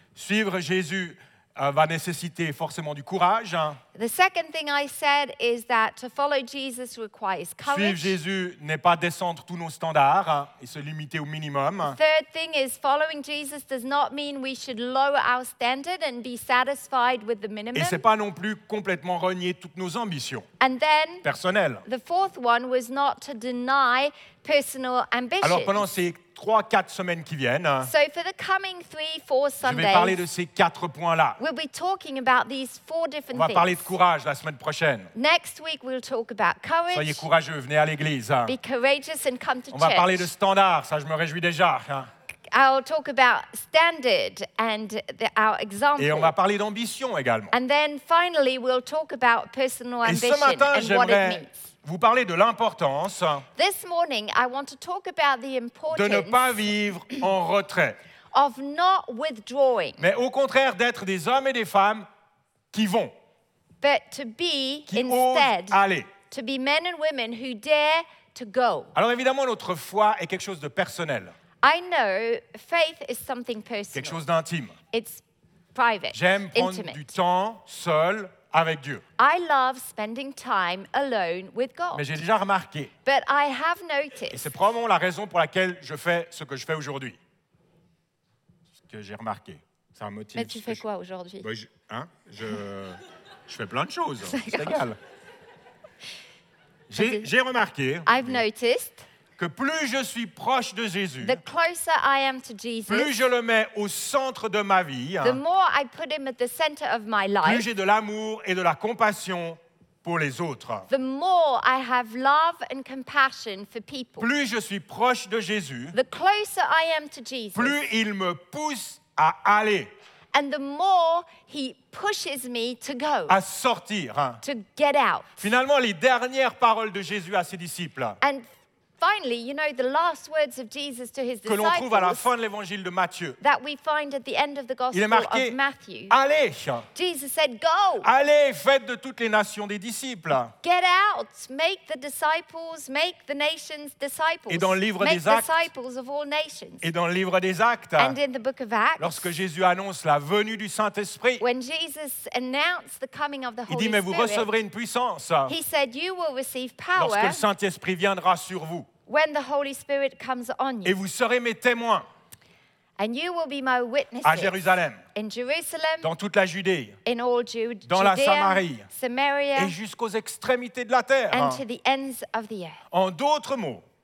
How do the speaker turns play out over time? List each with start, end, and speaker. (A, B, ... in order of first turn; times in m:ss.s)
0:00.2-0:03.8 A
0:04.0-0:08.1 B
0:07.7-0:12.0 A
0:11.8-0:18.0 B
0:17.8-0:20.5 A
0:20.6-0:21.3 B
0:21.2-0:21.8 A
0:21.9-0:25.9 B
0:25.4-0:27.9 A
0:27.8-0:30.2 B
0:29.6-0:31.4 A
0:31.4-0:34.0 B
0:33.3-0:35.1 A
0:35.2-0:37.3 B
0:36.9-0:38.6 A
0:38.5-0:40.3 B
0:39.7-0:42.1 A
0:42.5-0:46.4 B
0:46.0-0:47.5 A
0:47.5-0:51.7 B
0:50.0-0:53.5 A
0:53.6-0:56.7 B
0:55.9-0:58.0 A
0:58.3-1:00.0 B
1:00.0-1:02.1 A
1:02.7-1:03.1 A
1:03.8-1:08.9 B
1:04.9-1:06.1 A
1:09.0-1:11.3 A
1:11.6-1:14.2 B
1:13.9-1:14.8 A
1:14.9-1:17.0 B
1:16.1-1:19.0 A
1:19.2-1:22.1 B
1:21.9-1:22.9 A
1:23.0-1:24.5 B
1:24.3-1:27.2 A
1:28.8-1:30.8 A
1:30.4-1:31.5 B
1:31.4-1:35.0 A
1:34.2-1:34.9 B
1:36.9-1:38.4 A
1:37.0-1:37.3 B
1:38.1-1:39.1 B
1:39.4-1:41.4 A
1:41.2-1:43.1 B
1:42.9-1:45.4 A
1:45.2-1:47.7 B
1:47.4-1:50.9 A
1:50.9-1:54.3 B
1:54.2-1:56.0 A
1:55.9-1:57.8 B
1:57.6-1:59.9 A
2:00.3-2:03.4 B
2:03.3-2:04.4 A
2:04.4-2:05.4 B
2:05.4-2:08.2 A
2:08.2-2:08.5 B
2:09.0-2:12.3 B
2:11.4-2:13.4 A
2:13.4-2:16.2 B
2:14.9-2:15.6 A
2:16.1-2:16.9 A
2:16.9-2:18.1 B
2:18.0-2:20.6 A
2:20.6-2:26.8 B
2:24.5-2:25.7 A
2:26.8-2:28.2 A
2:28.0-2:29.3 B
2:29.0-2:31.4 A
2:31.4-2:34.5 B
2:33.7-2:35.6 A
2:35.5-2:37.4 B
2:37.0-2:38.9 A
2:39.1-2:41.0 B
2:40.8-2:42.1 A
2:43.0-2:44.6 B
2:44.2-2:45.0 A
2:45.1-2:46.1 B
2:46.0-2:47.0 A
2:47.0-2:49.8 B
2:47.9-2:48.9 A
2:49.6-2:51.6 A
2:51.3-2:52.8 B
2:52.9-2:53.8 A